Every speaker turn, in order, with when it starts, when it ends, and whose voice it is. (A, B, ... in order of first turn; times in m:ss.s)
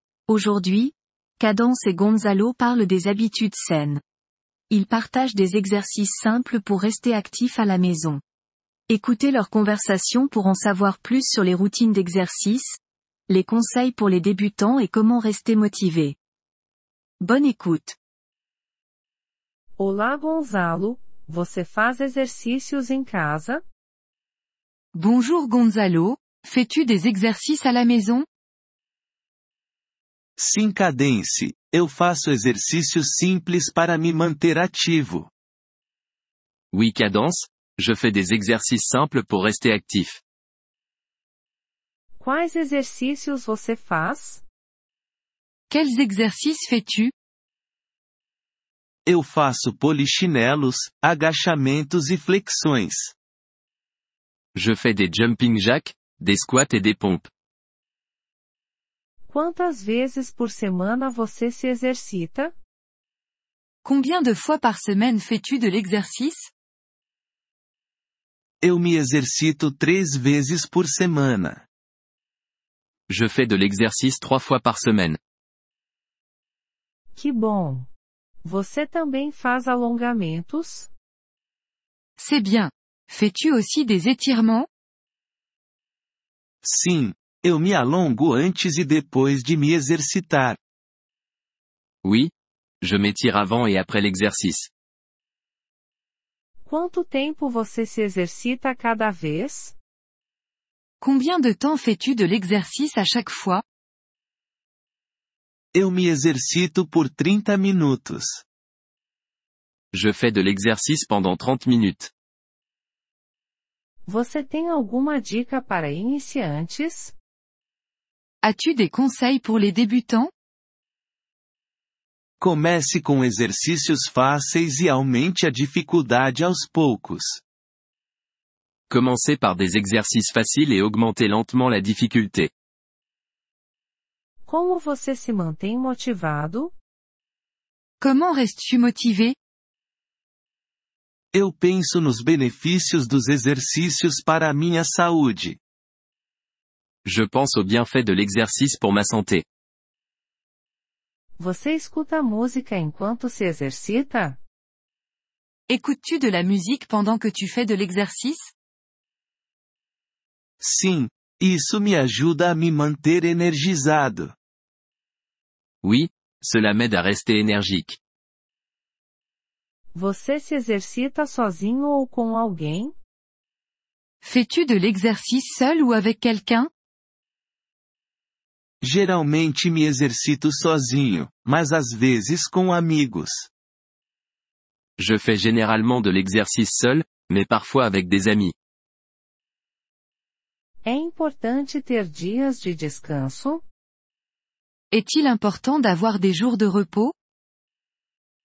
0:00.3-0:04.0 A
0:04.7-0:08.2 A
0:08.9-0:12.8 A
0:13.3-0:16.2 A
0:17.2-0:18.0 A
0:19.8-0:23.6 B
0:24.9-0:28.3 C
0:30.4-0:35.3 D
0:36.7-0:40.2 E
0:42.2-0:44.4 B
0:45.7-0:47.1 C
0:49.1-0:53.1 D
0:54.6-0:57.3 E
0:59.3-1:02.5 B
1:03.8-1:06.5 C
1:08.6-1:11.6 D
1:13.1-1:15.2 E
1:17.1-1:17.9 B
1:18.4-1:20.9 B
1:22.2-1:24.7 C
1:26.6-1:30.6 D
1:32.0-1:34.7 E
1:36.6-1:39.8 B
1:41.0-1:43.6 C
1:45.7-1:48.4 D
1:49.9-1:52.1 E
1:54.1-1:57.2 B
1:58.4-2:00.3 C
2:02.4-2:07.4 D
2:08.9-2:12.5 E
2:14.4-2:16.7 B
2:18.0-2:19.4 C
2:21.3-2:25.6 D
2:27.0-2:29.5 E
2:31.4-2:34.4 B
2:35.7-2:38.5 C
2:40.6-2:44.3 D
2:45.8-2:48.0 E
2:49.9-2:53.0 B
2:54.2-2:56.7 C
2:58.8-3:03.5 D
3:05.0-3:08.5 E
3:10.8-3:13.6 B
3:14.9-3:17.2 C